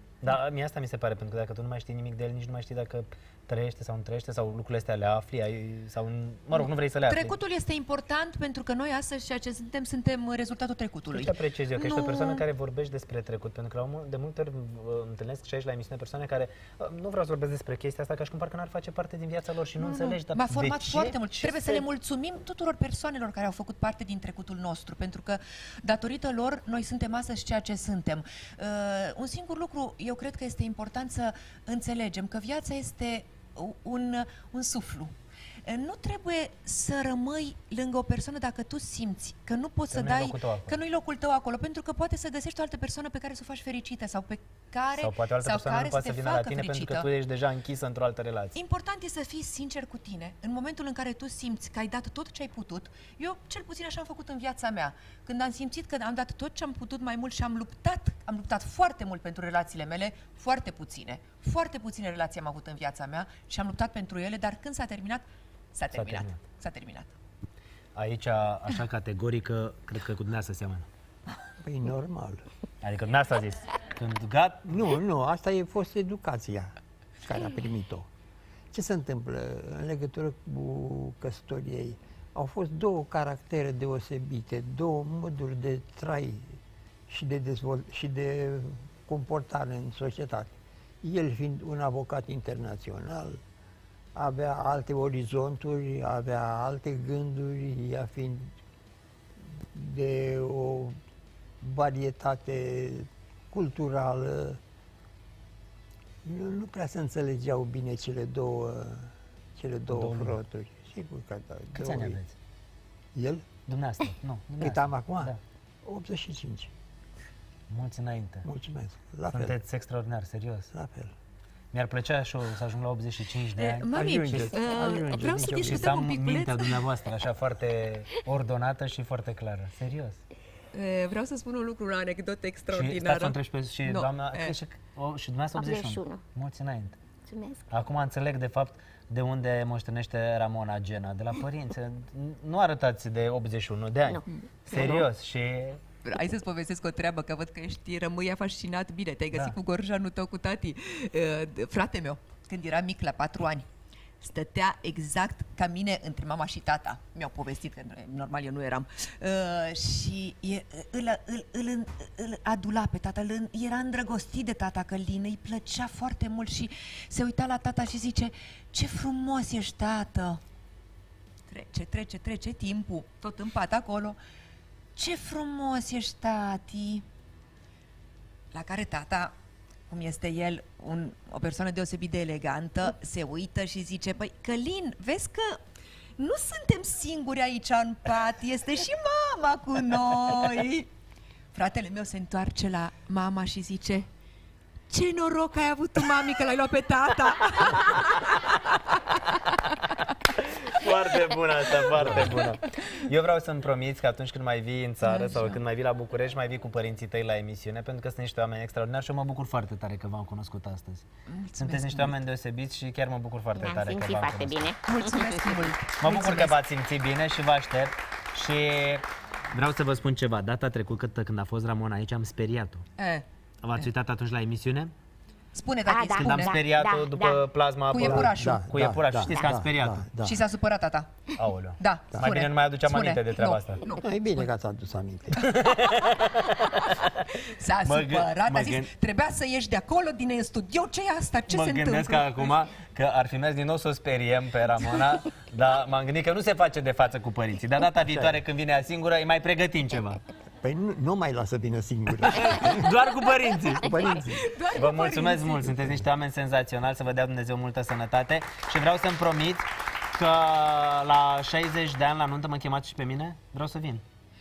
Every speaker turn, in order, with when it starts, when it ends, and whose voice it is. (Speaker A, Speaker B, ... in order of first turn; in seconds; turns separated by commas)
Speaker A: 0.2-7.4, Speaker B: 6.5-12.4, Speaker A: 11.1-21.9, Speaker B: 19.8-35.1, Speaker B: 35.6-47.1, Speaker A: 39.9-40.8, Speaker A: 45.0-48.6, Speaker B: 48.5-67.1, Speaker A: 65.9-66.4, Speaker A: 67.9-70.9, Speaker C: 71.6-72.4, Speaker A: 72.8-74.8, Speaker C: 74.7-78.1, Speaker C: 78.7-86.6, Speaker C: 87.1-93.4, Speaker C: 94.1-98.5, Speaker C: 99.6-101.0, Speaker C: 101.6-104.6, Speaker C: 106.2-112.2, Speaker A: 109.9-110.4, Speaker A: 111.7-112.3, Speaker C: 113.1-113.5, Speaker A: 113.7-115.4, Speaker C: 114.6-115.3, Speaker C: 115.8-116.7, Speaker A: 117.7-118.5, Speaker C: 118.4-119.6, Speaker A: 119.3-120.7, Speaker C: 120.7-121.1, Speaker A: 121.7-124.5, Speaker B: 123.5-126.8, Speaker C: 123.9-125.9, Speaker A: 125.6-130.2, Speaker B: 130.7-134.6, Speaker A: 132.7-137.0, Speaker D: 135.5-136.2, Speaker D: 137.2-137.7, Speaker A: 137.7-145.8, Speaker D: 144.1-145.0, Speaker B: 144.8-145.0, Speaker B: 146.0-153.7, Speaker B: 154.2-170.4, Speaker B: 171.5-174.2, Speaker B: 174.9-177.0, Speaker B: 178.5-179.3, Speaker B: 179.9-185.6, Speaker B: 186.2-190.9, Speaker B: 191.5-194.1, Speaker B: 194.9-199.5, Speaker A: 200.4-214.7, Speaker B: 205.0-205.6, Speaker B: 211.3-212.1, Speaker D: 213.5-215.2, Speaker B: 214.8-216.6, Speaker A: 216.0-222.8, Speaker B: 223.0-223.2, Speaker A: 223.6-224.9, Speaker B: 225.5-226.6, Speaker D: 225.8-227.4, Speaker A: 226.2-230.1, Speaker B: 227.9-228.7, Speaker C: 228.0-230.4, Speaker B: 230.2-231.2, Speaker A: 231.3-233.8, Speaker B: 231.8-234.5, Speaker C: 234.0-235.5, Speaker A: 235.3-237.1, Speaker B: 236.6-242.5, Speaker A: 237.8-238.9, Speaker A: 241.5-250.2, Speaker C: 248.1-248.4, Speaker C: 250.6-252.9, Speaker A: 252.3-254.1, Speaker C: 253.7-254.4, Speaker B: 253.9-255.7, Speaker A: 254.7-264.0